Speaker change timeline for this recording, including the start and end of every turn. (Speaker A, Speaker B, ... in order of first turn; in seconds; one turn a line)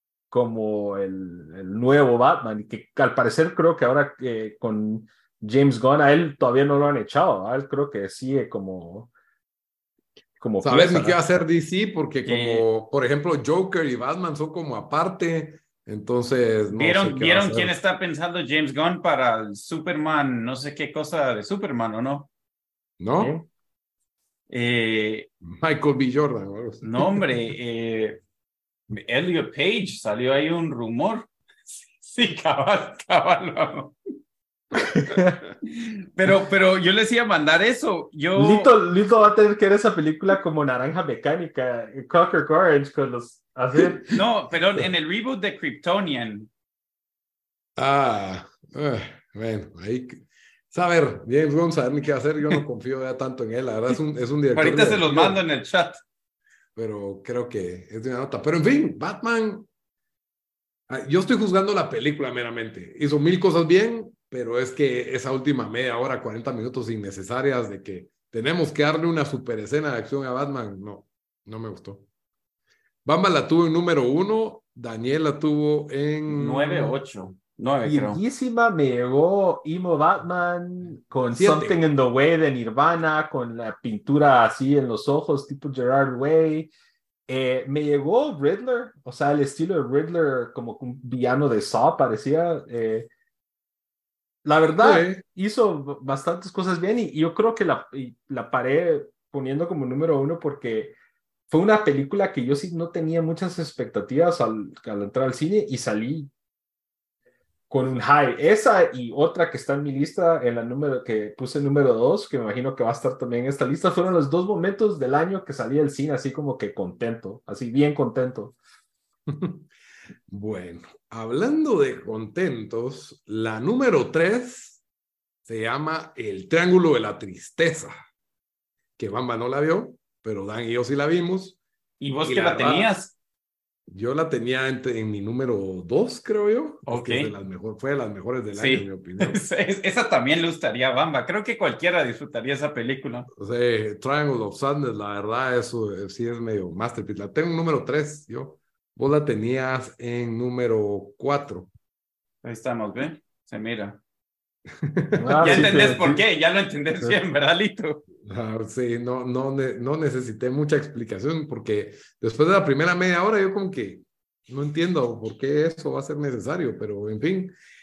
Speaker A: 0.3-9.1
Speaker A: 10.4-11.2
Speaker B: 10.6-17.8
Speaker C: 12.2-12.7
Speaker C: 16.7-22.3
Speaker B: 23.0-23.4
Speaker A: 23.2-23.5
Speaker C: 24.5-25.3
Speaker B: 25.4-27.2
Speaker C: 26.8-28.2
Speaker C: 28.9-31.3
Speaker C: 31.9-34.0
Speaker A: 34.7-35.4
Speaker C: 35.6-38.7
Speaker A: 38.3-44.2
Speaker C: 44.1-46.5
Speaker B: 47.8-55.4
Speaker C: 54.5-56.0
Speaker B: 56.8-59.7
Speaker B: 60.9-72.0
Speaker B: 73.0-77.0
Speaker C: 76.3-78.2
Speaker A: 77.8-86.7
Speaker B: 81.3-81.8
Speaker A: 87.3-93.1
Speaker A: 94.4-100.9
Speaker B: 94.8-95.2
Speaker A: 101.5-106.3
Speaker A: 107.7-118.5
Speaker B: 119.3-119.7
Speaker B: 120.3-124.8
Speaker B: 125.4-127.9
Speaker B: 129.0-131.6
Speaker C: 132.0-133.1
Speaker B: 132.2-132.9
Speaker B: 133.9-139.4
Speaker C: 136.8-137.3
Speaker C: 138.5-143.3
Speaker B: 143.3-151.7
Speaker C: 152.4-154.0
Speaker B: 154.8-155.9
Speaker A: 155.2-156.2
Speaker C: 155.4-158.0
Speaker B: 158.2-167.5